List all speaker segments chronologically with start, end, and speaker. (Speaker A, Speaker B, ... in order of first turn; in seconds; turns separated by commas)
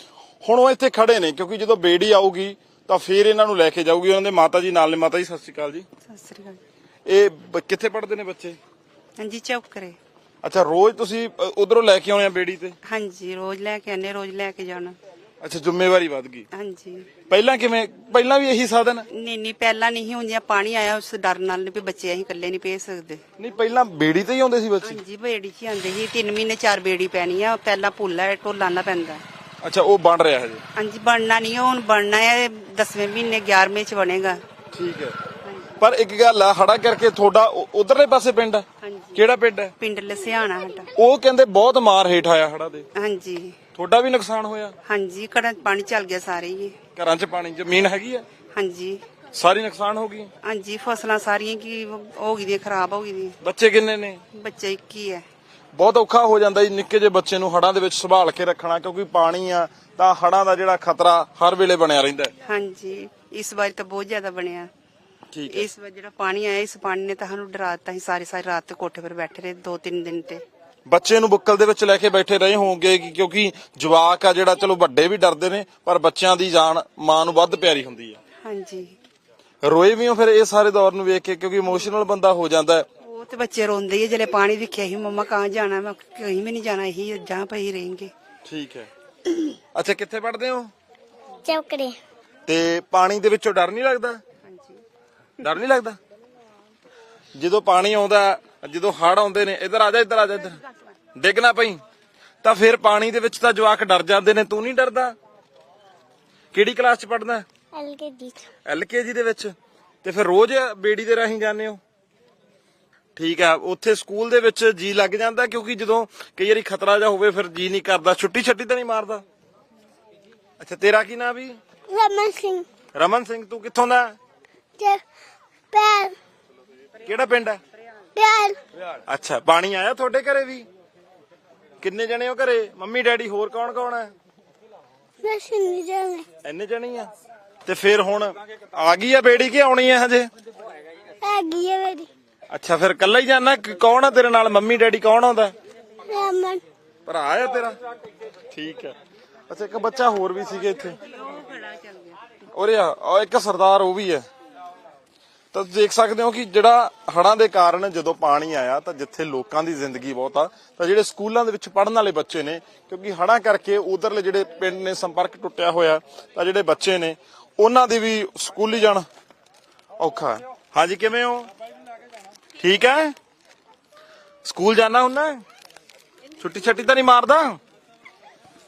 Speaker A: 0.4-5.9, Speaker B: 6.1-6.6, Speaker A: 7.1-8.6, Speaker B: 9.2-10.0, Speaker A: 10.4-12.8, Speaker B: 12.9-15.0, Speaker A: 15.4-16.5, Speaker B: 16.5-17.1, Speaker A: 17.3-19.1, Speaker B: 19.1-23.2, Speaker A: 23.4-25.0, Speaker B: 24.8-29.2, Speaker A: 29.6-30.6, Speaker B: 30.8-34.4, Speaker A: 34.7-35.2, Speaker B: 35.4-35.8, Speaker A: 35.8-39.7, Speaker B: 38.8-39.2, Speaker B: 39.8-40.9, Speaker A: 41.0-42.9, Speaker B: 43.0-43.6, Speaker A: 43.8-44.8, Speaker B: 44.9-46.8, Speaker A: 47.0-48.2, Speaker B: 48.5-49.0, Speaker A: 49.3-50.3, Speaker B: 50.4-53.4, Speaker A: 53.4-54.2, Speaker B: 54.3-55.2, Speaker A: 55.7-62.3, Speaker B: 62.5-64.7, Speaker A: 65.3-65.7, Speaker B: 65.5-70.4, Speaker A: 70.9-78.2, Speaker B: 78.5-78.9, Speaker A: 79.6-82.8, Speaker B: 83.0-88.1, Speaker A: 88.5-88.9, Speaker A: 89.7-90.7, Speaker C: 91.5-92.0, Speaker A: 92.5-94.2, Speaker B: 94.5-94.8, Speaker A: 95.4-96.0, Speaker A: 97.4-100.6, Speaker A: 101.2-101.8, Speaker A: 102.4-105.2, Speaker A: 106.5-107.5, Speaker C: 107.7-108.5, Speaker A: 108.7-111.8, Speaker A: 113.2-119.2, Speaker A: 120.6-121.6, Speaker C: 121.9-122.7, Speaker A: 123.0-124.2, Speaker C: 124.8-125.0, Speaker C: 125.7-126.2, Speaker A: 127.0-127.6, Speaker C: 128.2-128.6, Speaker A: 129.1-130.7, Speaker A: 131.8-134.1, Speaker C: 135.2-136.3, Speaker A: 136.4-137.1, Speaker A: 137.7-140.3, Speaker C: 141.2-142.1, Speaker A: 142.5-145.6, Speaker C: 146.0-146.6, Speaker A: 147.1-147.8, Speaker A: 148.5-149.0, Speaker A: 149.5-151.0, Speaker B: 151.1-152.2, Speaker A: 152.5-154.3, Speaker A: 155.5-169.1, Speaker A: 170.0-171.5, Speaker A: 172.6-173.1, Speaker A: 174.4-175.4, Speaker A: 176.4-177.6